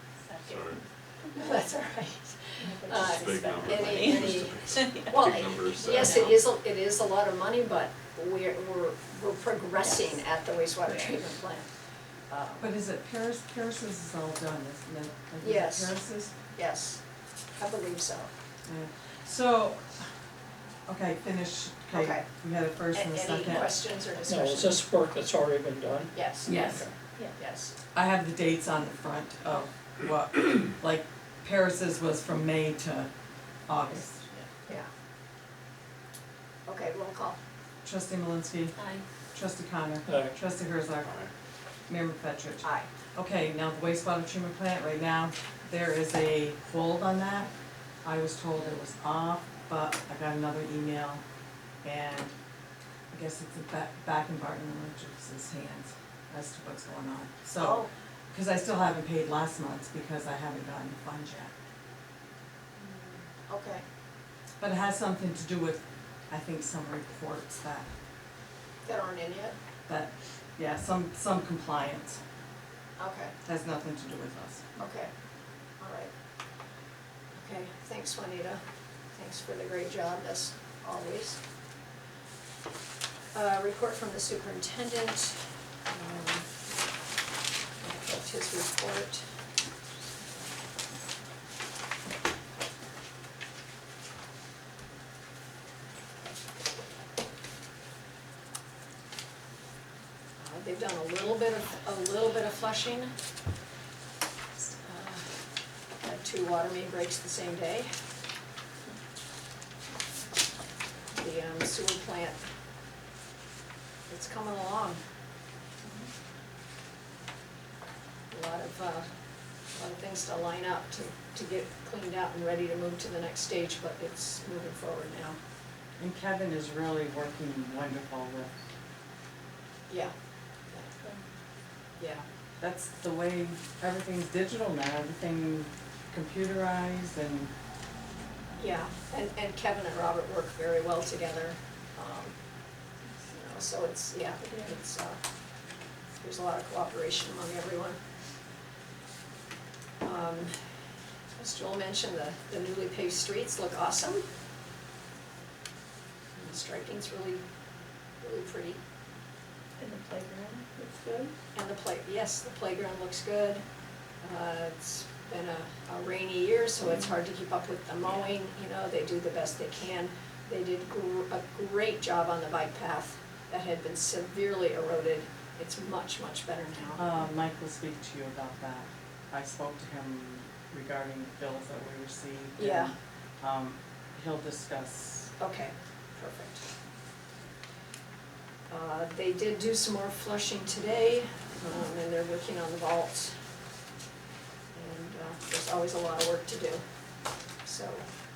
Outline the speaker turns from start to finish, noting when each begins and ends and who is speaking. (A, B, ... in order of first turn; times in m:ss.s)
0:00.5-0:00.8 A
0:01.3-0:11.7 B
0:02.6-0:05.1 C
0:03.1-0:05.9 A
0:05.8-0:06.3 C
0:12.3-0:12.7 B
0:12.6-0:16.3 D
0:15.4-0:15.9 B
0:16.5-0:17.0 B
0:17.6-0:18.3 B
0:18.7-0:20.1 D
0:20.9-0:23.6 D
0:21.9-0:22.2 B
0:22.9-0:24.8 B
0:24.2-0:26.9 E
0:26.1-0:27.7 B
0:26.5-0:26.9 D
0:27.9-0:33.1 D
0:33.7-0:34.2 D
0:36.7-0:37.4 B
0:37.8-0:38.8 D
0:38.8-0:39.0 C
0:39.3-0:41.2 D
0:40.1-0:40.3 E
0:41.9-0:47.5 D
0:42.6-0:42.9 B
0:48.0-0:51.2 D
0:51.8-0:52.3 D
0:53.1-1:01.5 D
0:57.6-0:57.9 B
1:02.8-1:03.8 B
1:04.6-1:07.9 D
1:08.8-1:09.5 B
1:09.9-1:12.2 D
1:13.0-1:13.3 B
1:13.4-1:14.6 D
1:14.8-1:15.1 B
1:15.8-1:16.1 B
1:17.3-1:18.6 B
1:19.1-1:21.4 B
1:23.3-1:26.5 B
1:27.8-1:29.2 B
1:40.4-1:43.1 B
1:44.7-1:45.2 B
1:46.0-1:47.9 B
1:51.1-1:52.4 B
1:54.1-1:55.0 B
1:58.3-1:59.0 B
1:59.7-2:05.4 B
2:06.0-2:08.5 D
2:12.0-2:12.2 B
2:12.6-2:17.5 D
2:18.6-2:22.3 B
2:23.2-2:25.2 B
2:26.2-2:28.0 B
2:30.0-2:30.5 B
2:31.4-2:34.2 B
2:36.4-2:37.4 B
2:38.2-2:38.8 B
2:39.8-2:41.3 C
2:41.5-2:43.6 B
2:44.2-2:57.2 B
2:57.0-3:05.3 D
3:02.6-3:02.9 B
3:05.4-3:06.6 B
3:08.7-3:13.3 B
3:14.7-3:16.8 B
3:17.6-3:18.0 B